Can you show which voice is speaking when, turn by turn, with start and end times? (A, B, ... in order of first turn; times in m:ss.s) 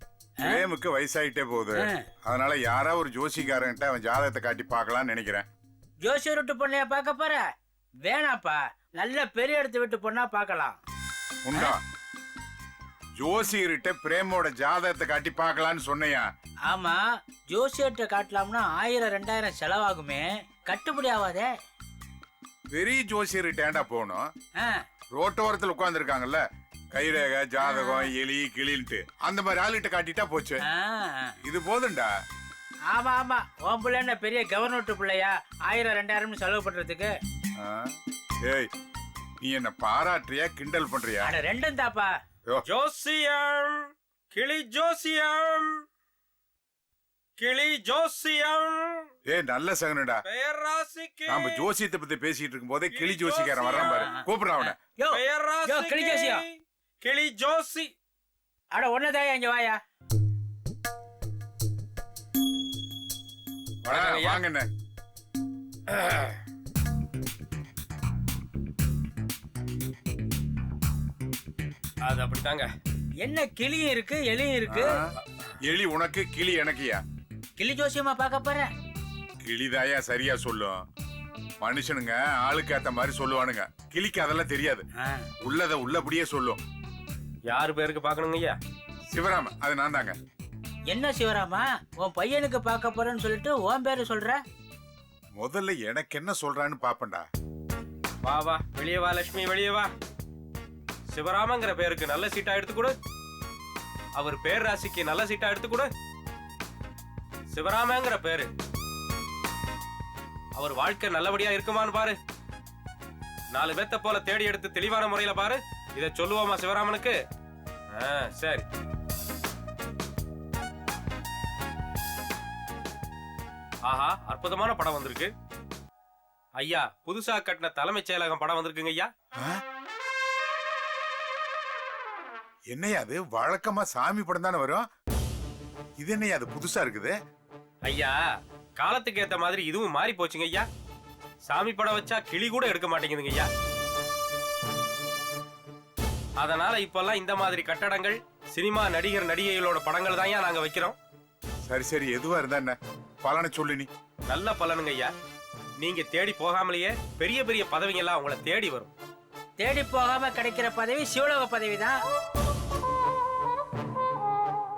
0:00.4-0:00.6 A
0:00.4-0:05.5 B
0:06.0-0:07.4 A
0:08.0-0:10.8 A
0:11.4-0:11.8 B
0:13.2-0:16.2 B
0:16.7-0:21.5 A
0:22.7-0:24.2 B
0:25.1-0:30.6 B
0:27.6-0:28.1 A
0:30.6-0:31.3 A
0:31.4-0:32.1 B
0:32.9-0:37.1 A
0:37.6-0:37.9 B
0:38.4-0:38.7 B
0:39.4-0:41.3 B
0:41.2-0:42.1 A
0:42.7-0:43.8 C
0:44.3-0:45.7 C
0:47.4-0:49.1 C
0:49.3-0:50.2 B
0:50.3-0:51.7 C
0:51.3-0:54.8 B
0:52.9-0:54.0 C
0:53.8-0:56.4 A
0:55.1-0:57.9 C
0:58.7-0:59.8 A
1:03.8-1:04.7 B
1:03.9-1:04.4 A
1:05.9-1:06.4 C
1:12.0-1:12.7 C
1:13.2-1:15.0 A
1:14.7-1:15.0 B
1:15.7-1:17.0 B
1:17.6-1:18.7 A
1:19.4-1:20.8 B
1:21.6-1:24.8 B
1:25.0-1:25.2 A
1:25.4-1:26.6 B
1:27.5-1:28.6 C
1:29.1-1:30.2 B
1:30.9-1:34.4 A
1:35.4-1:37.2 B
1:38.2-1:39.9 C
1:41.1-1:42.9 C
1:44.2-1:45.9 C
1:47.5-1:48.5 C
1:50.6-1:52.2 C
1:53.5-1:57.2 C
1:57.9-1:58.6 C
2:03.9-2:05.3 C
2:06.6-2:09.1 C
2:12.7-2:14.8 B
2:16.0-2:17.1 B
2:17.8-2:18.1 C
2:18.8-2:20.6 C
2:21.5-2:23.5 C
2:26.4-2:31.0 C
2:31.7-2:33.9 B
2:34.3-2:35.1 C
2:35.8-2:38.9 C
2:39.6-2:42.0 A